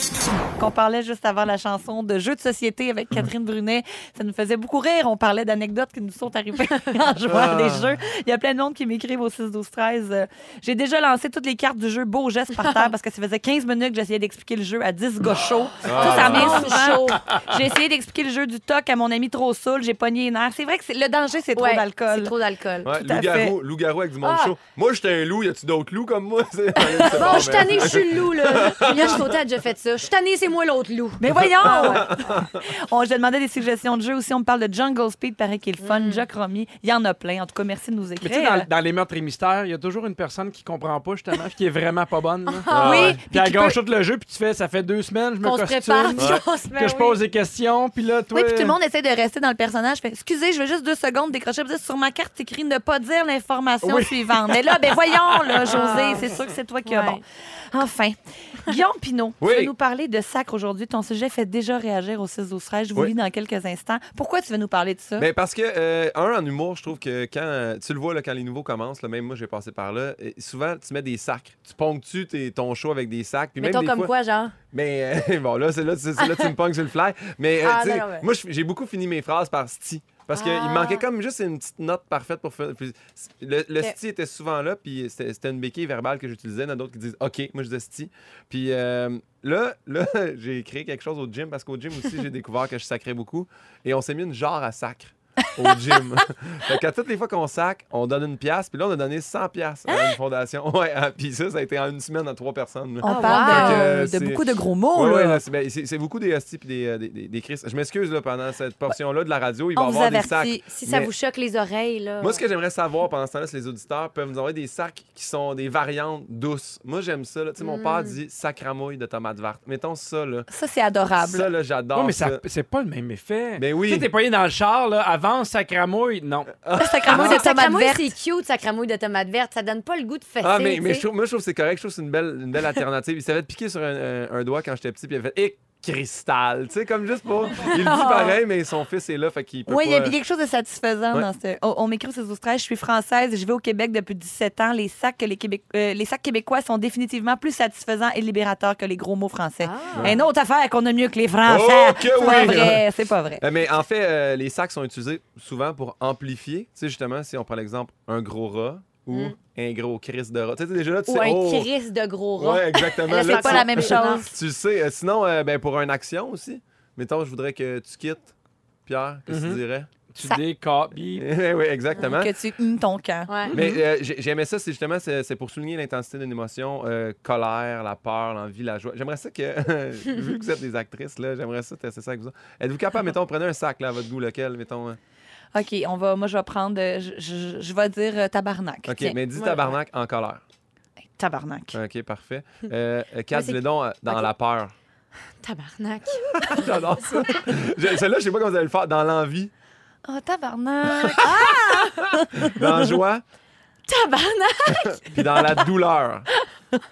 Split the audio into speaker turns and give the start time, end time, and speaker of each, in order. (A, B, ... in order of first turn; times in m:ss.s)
0:00.6-0:22.4 A
0:07.3-0:07.9 B
0:15.8-0:16.8 B
0:15.9-0:17.2 C
0:21.6-0:22.9 C
0:22.8-0:29.4 B
0:22.9-0:23.6 A
0:24.2-0:24.6 C
0:27.0-0:32.1 C
0:31.2-0:38.7 A
0:31.6-0:32.6 B
0:35.8-0:36.2 C
0:38.2-0:42.7 D
0:42.5-0:43.2 C
0:42.7-0:43.2 B
0:42.8-0:43.8 A
0:43.3-0:48.8 D
0:45.4-0:47.2 C
0:46.2-0:46.4 B
0:48.3-1:05.3 A
0:53.8-0:56.1 D
0:55.7-0:57.2 C
0:59.4-0:59.7 B
1:05.2-1:14.1 B
1:13.6-1:14.6 C
1:14.7-1:51.1 B
1:16.2-1:16.5 C
1:17.6-1:18.3 C
1:20.3-1:21.0 C
1:39.9-1:40.1 C
1:43.0-1:45.4 A
1:43.0-1:43.9 C
1:49.8-1:50.6 A
1:50.7-1:52.4 C
1:52.2-2:00.5 B
1:57.6-1:58.2 C
2:00.5-2:01.5 A
2:01.2-2:02.4 B
2:01.9-2:06.6 D
2:03.6-2:04.1 B
2:06.6-2:07.4 B
2:06.8-2:08.1 A
2:07.1-2:11.1 C
2:10.4-2:20.2 B
2:17.6-2:18.4 C
2:19.7-2:33.4 A
2:29.6-2:30.2 C
2:31.4-2:32.8 B
2:32.3-2:32.5 C
2:33.4-2:41.7 B
2:41.1-2:44.3 C
2:42.4-2:48.3 B
2:43.2-2:44.3 A
2:48.8-2:49.9 B
2:49.3-2:49.6 D
2:50.1-2:51.3 D
2:51.2-2:52.4 B
2:52.0-2:53.3 A
2:53.3-2:53.5 C
2:53.5-2:53.8 D
2:53.5-3:05.0 B
3:05.5-3:09.2 A
3:08.8-3:10.4 B
3:09.3-3:09.8 C
3:11.2-3:11.8 A
3:11.7-3:14.7 B
3:13.3-3:14.3 C
3:15.4-3:16.6 C
3:16.3-3:19.5 B
3:20.0-3:22.6 A
3:21.2-3:22.1 C
3:22.4-3:23.2 B
3:23.9-3:25.6 C
3:25.0-3:26.3 B